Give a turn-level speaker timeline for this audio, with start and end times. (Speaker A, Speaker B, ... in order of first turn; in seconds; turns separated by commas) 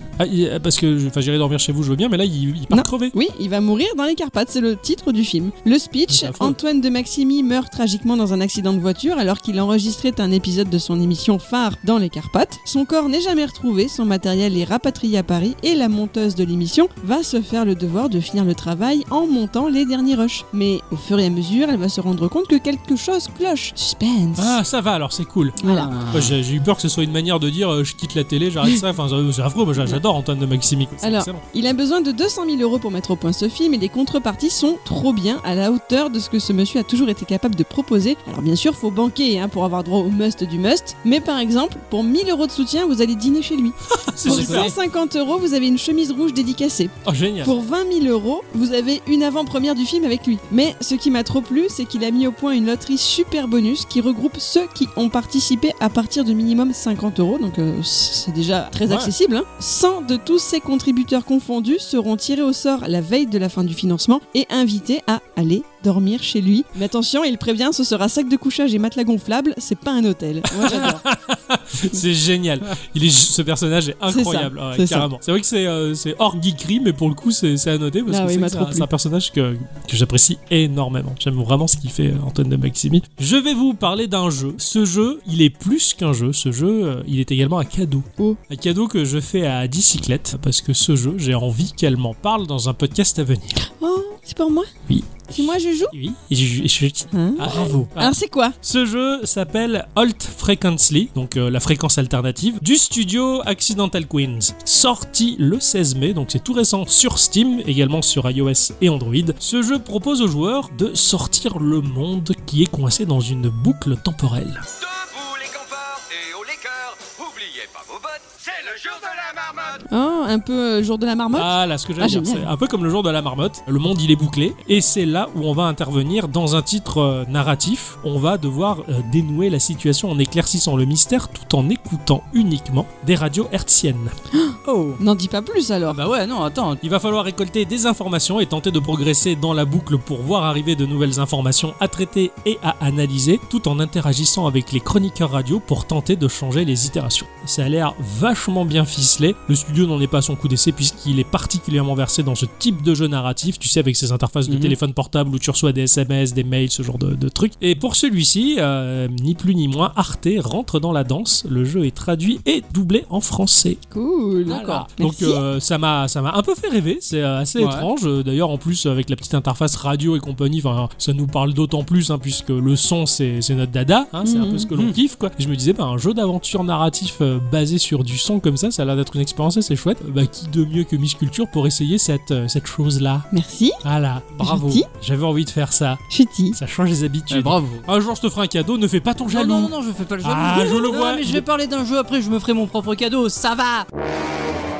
Speaker A: 0.2-3.1, Speaker B: 2.7-24.6, Speaker A: 6.1-6.6, Speaker A: 24.4-31.4, Speaker B: 25.6-25.9, Speaker C: 25.6-26.4, Speaker B: 31.0-71.0, Speaker A: 43.9-44.7, Speaker C: 44.2-44.7, Speaker A: 47.0-47.5, Speaker C: 70.5-71.0, Speaker A: 70.5-93.6, Speaker B: 74.1-75.1, Speaker B: 78.1-78.9, Speaker B: 93.6-94.7, Speaker A: 94.9-114.6, Speaker B: 95.3-95.9, Speaker B: 97.1-98.5, Speaker C: 97.4-97.8, Speaker D: 115.1-119.7, Speaker B: 119.9-122.5, Speaker A: 121.3-134.1, Speaker B: 134.3-136.0, Speaker C: 134.6-135.0, Speaker C: 135.9-136.8, Speaker A: 136.8-163.8, Speaker C: 154.5-154.8, Speaker B: 163.9-165.4, Speaker A: 164.5-183.3, Speaker C: 164.5-164.9, Speaker C: 167.6-167.9, Speaker B: 174.2-174.7, Speaker B: 183.3-183.8, Speaker A: 183.8-191.4, Speaker C: 184.4-184.8, Speaker B: 184.4-184.8, Speaker B: 186.1-186.6, Speaker C: 187.3-187.8, Speaker C: 189.3-193.9